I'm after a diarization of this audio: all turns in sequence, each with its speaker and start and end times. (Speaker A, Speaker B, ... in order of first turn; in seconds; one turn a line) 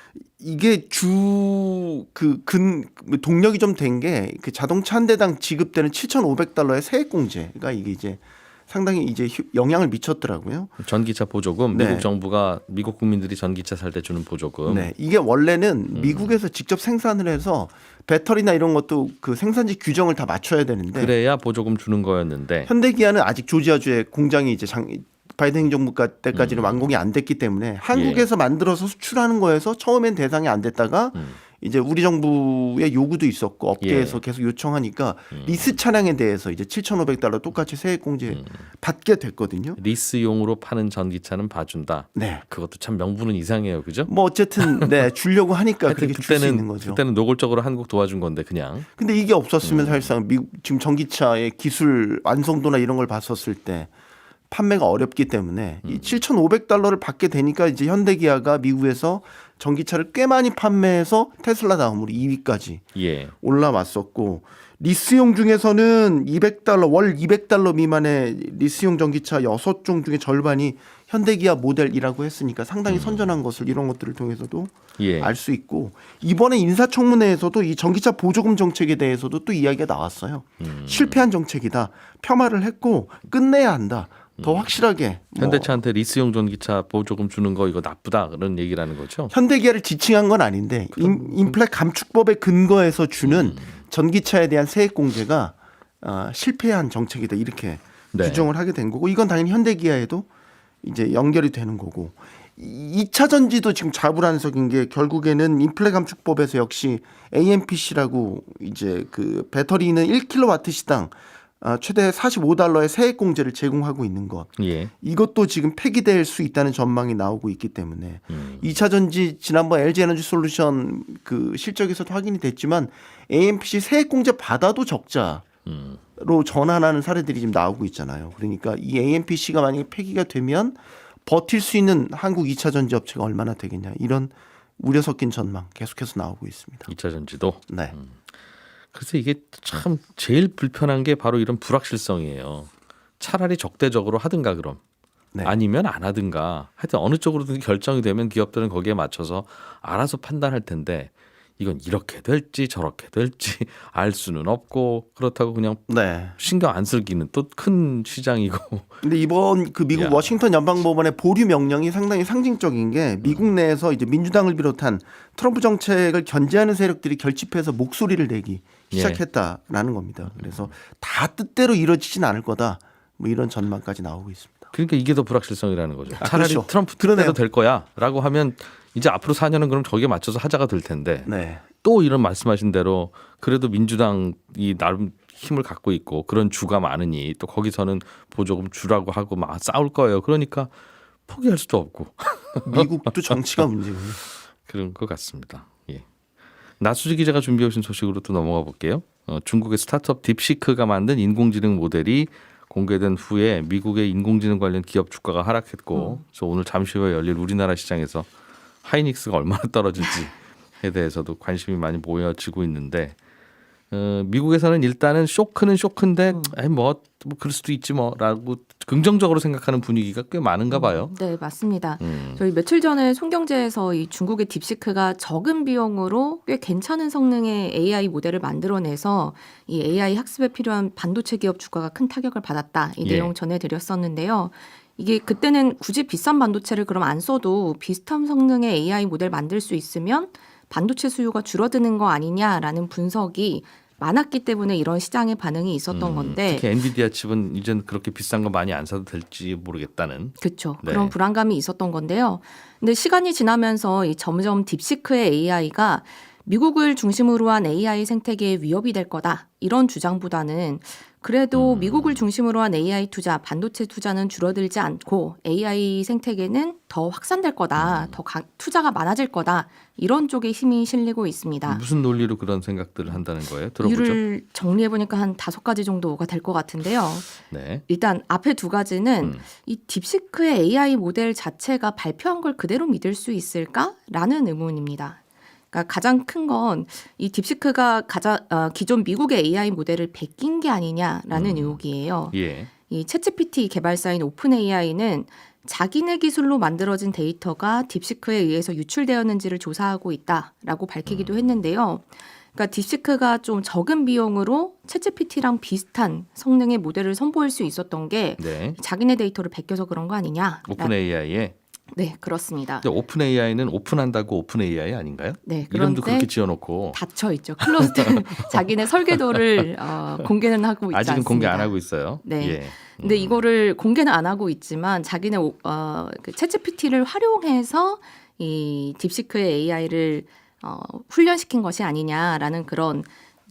Speaker A: 0.4-10.7
Speaker B: 10.8-14.9
Speaker A: 11.7-12.1
Speaker A: 14.7-21.1
Speaker B: 15.9-16.3
Speaker B: 20.9-22.7
Speaker A: 22.7-39.8
Speaker B: 26.3-26.9
Speaker B: 27.9-28.3
Speaker B: 33.8-34.2
Speaker B: 35.3-35.7
Speaker B: 38.3-38.6
Speaker B: 39.8-44.1
Speaker A: 42.1-42.4
Speaker A: 44.1-47.0
Speaker B: 45.9-48.9
Speaker A: 49.0-53.9
Speaker B: 49.6-50.1
Speaker A: 54.5-85.7
Speaker B: 55.9-56.2
Speaker B: 63.0-63.3
Speaker B: 72.9-73.3
Speaker B: 75.0-75.3
Speaker B: 80.6-81.2
Speaker B: 84.4-84.7
Speaker B: 85.4-89.3
Speaker A: 89.3-100.3
Speaker B: 91.0-91.5
Speaker B: 93.2-93.8
Speaker B: 98.1-98.5
Speaker A: 100.8-125.5
Speaker B: 114.6-114.9
Speaker B: 118.3-118.7
Speaker B: 125.7-126.0
Speaker A: 126.2-136.9
Speaker B: 136.9-138.2
Speaker B: 138.9-144.8
Speaker B: 145.4-159.0
Speaker A: 155.9-156.4
Speaker A: 159.0-174.7
Speaker B: 159.9-160.3
Speaker B: 168.9-169.2
Speaker B: 170.4-170.7
Speaker B: 174.7-181.3
Speaker A: 176.2-177.4
Speaker A: 181.3-181.6
Speaker B: 181.8-190.7
Speaker B: 191.3-192.9
Speaker A: 192.7-194.2
Speaker B: 194.6-196.1
Speaker B: 196.8-208.3
Speaker C: 205.9-206.2
Speaker B: 208.8-213.2
Speaker B: 213.9-221.1
Speaker C: 220.7-246.7
Speaker B: 222.0-222.4
Speaker B: 233.1-233.3
Speaker B: 245.9-251.1
Speaker C: 250.4-271.8
Speaker B: 261.5-262.2
Speaker B: 267.8-268.1
Speaker B: 271.7-274.2
Speaker C: 273.8-285.2
Speaker B: 277.5-277.8
Speaker C: 285.7-292.4
Speaker B: 291.3-292.7
Speaker C: 292.9-310.9
Speaker B: 301.1-301.6
Speaker B: 308.4-308.8
Speaker B: 310.7-311.6
Speaker C: 311.9-312.9
Speaker B: 312.8-317.0
Speaker C: 315.4-316.3
Speaker C: 316.9-333.1
Speaker B: 317.6-318.6
Speaker B: 320.9-323.4